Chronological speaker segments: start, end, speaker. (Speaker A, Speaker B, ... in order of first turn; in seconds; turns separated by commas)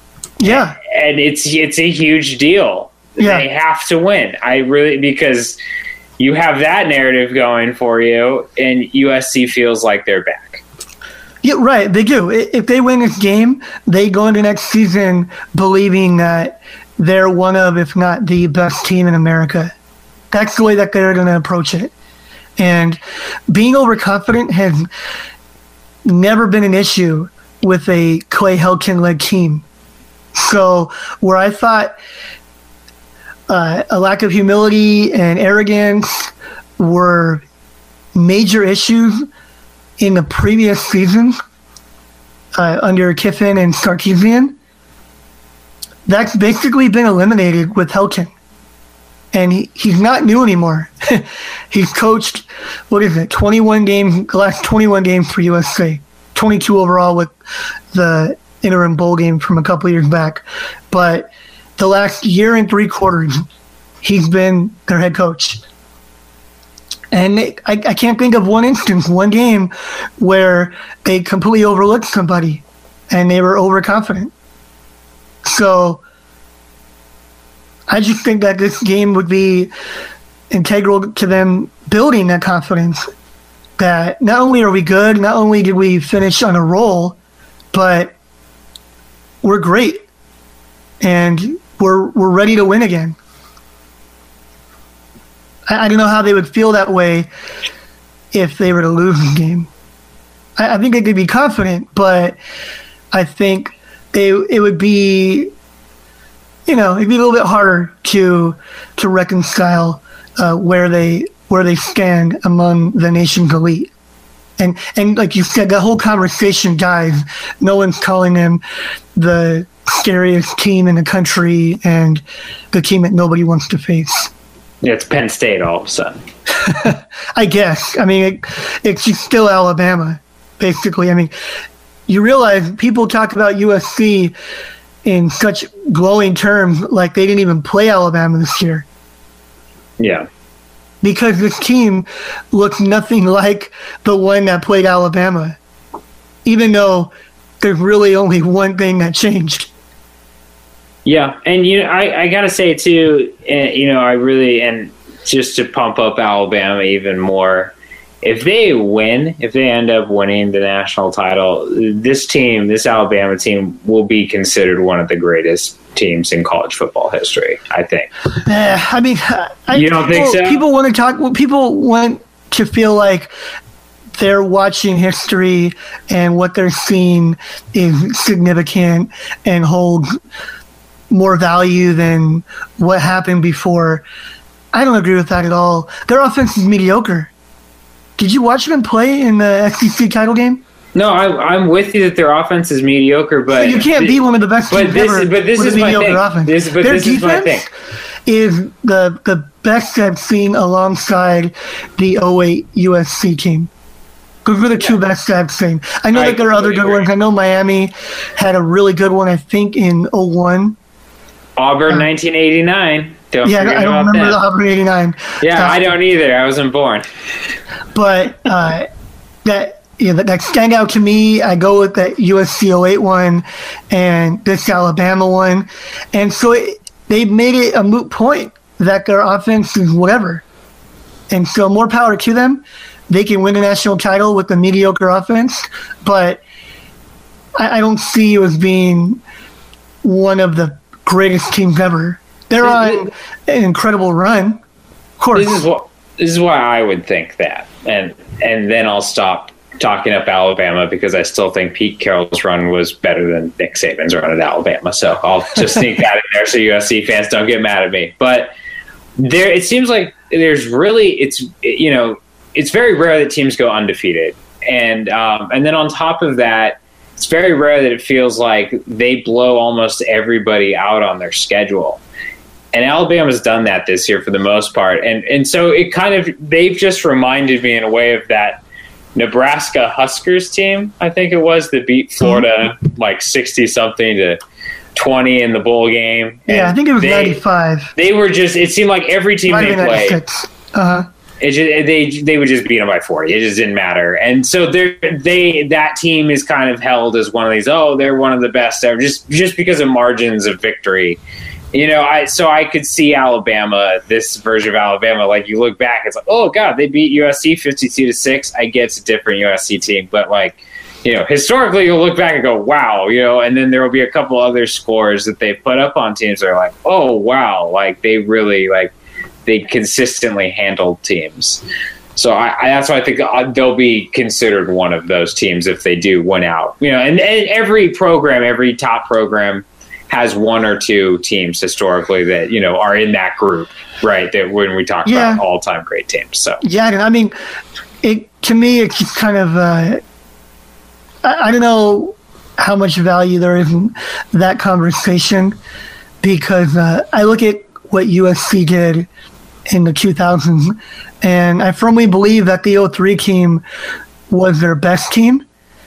Speaker A: 0.4-0.8, Speaker B: 0.4-5.6, Speaker A: 3.2-3.5, Speaker B: 6.2-10.6, Speaker A: 11.4-19.7, Speaker A: 20.3-21.9, Speaker A: 22.6-24.9, Speaker A: 26.1-29.6, Speaker A: 30.4-31.9, Speaker A: 33.5-37.4, Speaker A: 38.1-39.3, Speaker A: 40.0-41.4, Speaker A: 42.6-44.5, Speaker A: 46.1-48.3, Speaker A: 49.3-57.3, Speaker A: 57.9-63.4, Speaker A: 64.0-65.6, Speaker A: 67.1-74.3, Speaker A: 75.4-76.0, Speaker A: 77.9-79.7, Speaker A: 80.5-83.1, Speaker A: 83.8-87.2, Speaker A: 87.7-88.1, Speaker A: 89.4-90.0, Speaker A: 91.0-93.2, Speaker A: 95.7-97.3, Speaker A: 98.3-99.7, Speaker A: 100.6-102.4, Speaker A: 103.1-105.5, Speaker A: 106.7-113.9, Speaker A: 114.6-118.6, Speaker A: 119.2-124.3, Speaker B: 124.8-126.2, Speaker A: 126.6-131.3, Speaker A: 132.1-134.3, Speaker A: 135.1-138.8, Speaker B: 140.0-140.3, Speaker A: 141.0-145.6, Speaker A: 146.4-149.7, Speaker B: 151.1-168.1, Speaker A: 168.4-173.3, Speaker B: 169.7-170.6, Speaker A: 174.1-180.1, Speaker A: 181.1-184.0, Speaker A: 184.7-187.3, Speaker A: 188.2-190.6, Speaker B: 190.9-194.2, Speaker A: 193.5-197.7, Speaker B: 194.7-197.7, Speaker A: 198.3-203.7, Speaker A: 204.4-210.8, Speaker B: 206.1-207.1, Speaker B: 211.6-214.4, Speaker A: 213.4-215.8, Speaker B: 215.4-217.1, Speaker A: 217.9-218.9, Speaker A: 219.4-230.4, Speaker A: 231.3-236.4, Speaker A: 237.6-239.2, Speaker A: 240.0-244.6, Speaker B: 242.6-242.9, Speaker A: 245.2-245.6, Speaker B: 245.3-258.5, Speaker B: 259.2-272.0, Speaker B: 272.7-278.6, Speaker B: 279.1-284.4, Speaker B: 284.9-287.4, Speaker A: 286.5-287.9, Speaker B: 288.0-290.2, Speaker A: 289.5-291.1, Speaker B: 291.4-301.2, Speaker B: 301.7-318.9, Speaker B: 319.5-321.6, Speaker B: 322.1-336.6, Speaker A: 335.1-335.4, Speaker A: 336.6-337.4, Speaker A: 338.0-340.0, Speaker A: 341.2-345.6, Speaker A: 346.2-349.1, Speaker A: 349.7-353.6, Speaker A: 354.3-355.4